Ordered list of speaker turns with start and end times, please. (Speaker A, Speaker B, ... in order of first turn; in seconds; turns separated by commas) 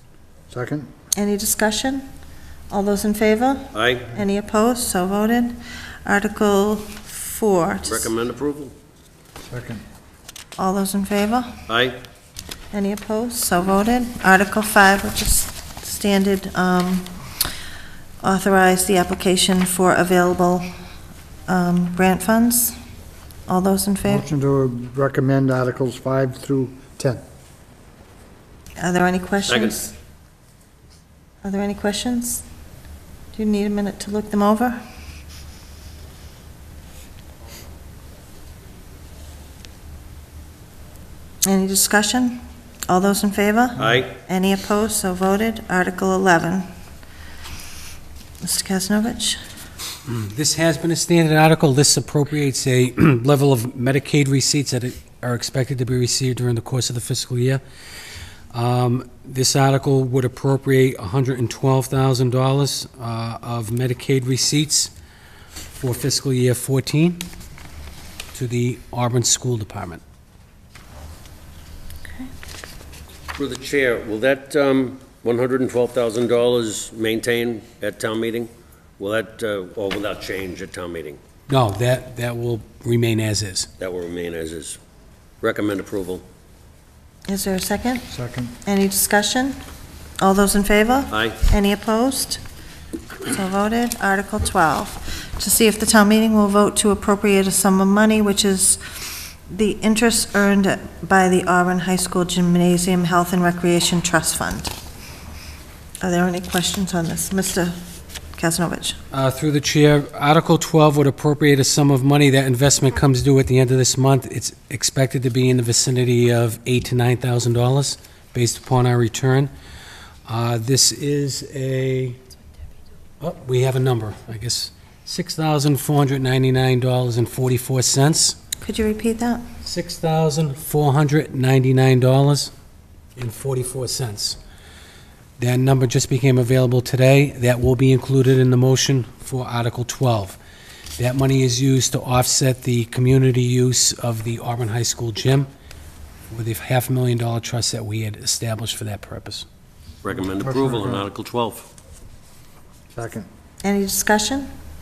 Speaker A: 0.5-0.9, Speaker B: 1.1-2.1, Speaker B: 2.7-8.1, Speaker C: 3.7-4.1, Speaker C: 7.9-8.7, Speaker A: 9.4-9.8, Speaker B: 10.6-11.6, Speaker C: 11.7-12.0, Speaker B: 12.7-17.1, Speaker B: 18.2-20.7, Speaker B: 21.5-22.8, Speaker B: 23.5-24.3, Speaker A: 24.1-27.2, Speaker B: 28.8-29.9, Speaker C: 29.5-29.8, Speaker B: 31.4-32.4, Speaker B: 33.4-34.8, Speaker B: 41.5-46.6, Speaker C: 43.8-44.1, Speaker B: 48.4-49.4, Speaker D: 50.1-57.6, Speaker D: 58.5-64.9, Speaker D: 65.8-67.3, Speaker D: 68.3-70.0, Speaker C: 73.4-81.2, Speaker D: 81.5-83.7, Speaker C: 83.8-84.8, Speaker C: 85.4-86.2, Speaker B: 87.3-88.1, Speaker A: 88.1-88.6, Speaker B: 88.7-89.6, Speaker B: 90.2-92.4, Speaker C: 91.1-91.4, Speaker B: 93.3-98.8, Speaker B: 99.5-104.7, Speaker B: 106.0-107.8, Speaker B: 108.4-109.0, Speaker D: 109.1-119.5, Speaker D: 120.3-122.2, Speaker D: 123.2-128.4, Speaker B: 128.6-129.4, Speaker D: 129.6-132.5, Speaker D: 133.2-134.4, Speaker D: 135.4-140.4, Speaker D: 141.0-145.5, Speaker D: 146.3-149.5, Speaker C: 150.0-151.7, Speaker A: 150.4-151.1, Speaker A: 152.9-153.3, Speaker B: 153.6-154.5